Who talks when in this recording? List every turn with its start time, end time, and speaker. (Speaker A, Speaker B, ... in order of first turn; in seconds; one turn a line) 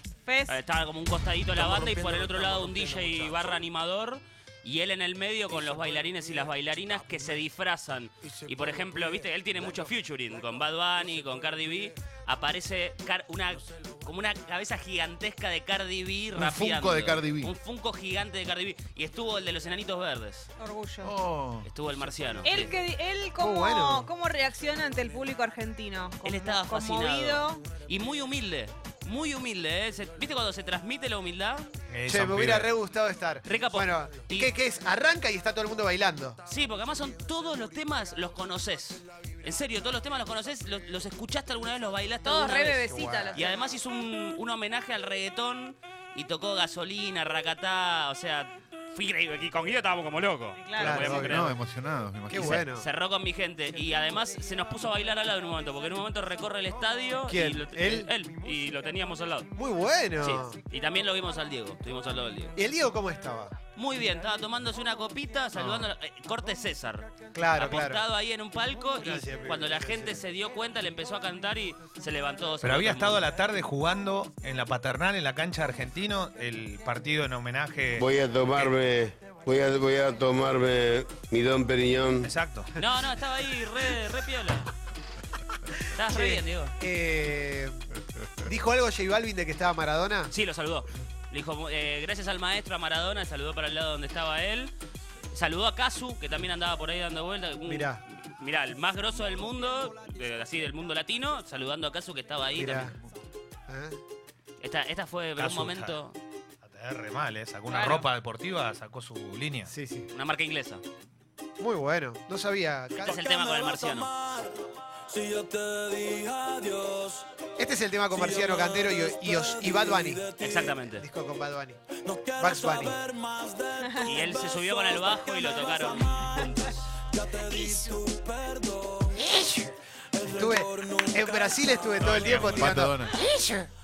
Speaker A: 0.2-0.6
Speaker B: 0.5-20.5
Speaker C: 16.3-17.5
Speaker A: 20.6-21.1
Speaker C: 21.0-21.7
Speaker B: 21.6-22.8
Speaker A: 22.4-27.6
Speaker D: 23.4-24.1
Speaker B: 26.2-31.7
Speaker E: 31.9-32.7
Speaker D: 32.1-36.4
Speaker B: 33.5-34.5
Speaker B: 36.5-51.5
Speaker A: 42.2-43.6
Speaker D: 42.9-43.4
Speaker A: 50.6-51.3
Speaker D: 50.8-51.5
Speaker C: 51.2-52.7
Speaker D: 52.3-52.9
Speaker B: 52.3-59.5
Speaker D: 57.3-58.1
Speaker D: 59.5-60.6
Speaker B: 60.2-62.5
Speaker D: 62.5-63.5
Speaker B: 63.8-73.3
Speaker D: 67.3-68.0
Speaker D: 68.9-70.2
Speaker E: 72.6-78.7
Speaker F: 78.0-82.3
Speaker E: 82.2-82.7
Speaker B: 82.8-84.7
Speaker B: 85.9-86.8
Speaker D: 86.1-87.9
Speaker D: 88.4-90.3
Speaker B: 90.3-94.7
Speaker B: 95.3-103.0
Speaker D: 97.7-98.0
Speaker D: 102.5-103.0
Speaker D: 103.7-104.0
Speaker B: 104.6-106.2
Speaker E: 105.4-106.0
Speaker E: 106.6-109.7
Speaker A: 107.7-108.1
Speaker D: 109.7-110.1
Speaker B: 110.1-110.8
Speaker D: 111.6-113.2
Speaker B: 113.0-114.1
Speaker G: 113.2-114.4
Speaker G: 115.1-117.2
Speaker D: 117.6-120.2
Speaker G: 118.3-120.8
Speaker B: 120.4-121.0
Speaker D: 120.9-121.8
Speaker G: 122.1-129.3
Speaker D: 122.4-123.0
Speaker A: 123.8-124.1
Speaker B: 124.0-126.7
Speaker A: 127.5-127.9
Speaker D: 130.2-133.1
Speaker G: 130.2-131.6
Speaker E: 132.0-132.8
Speaker C: 132.3-133.2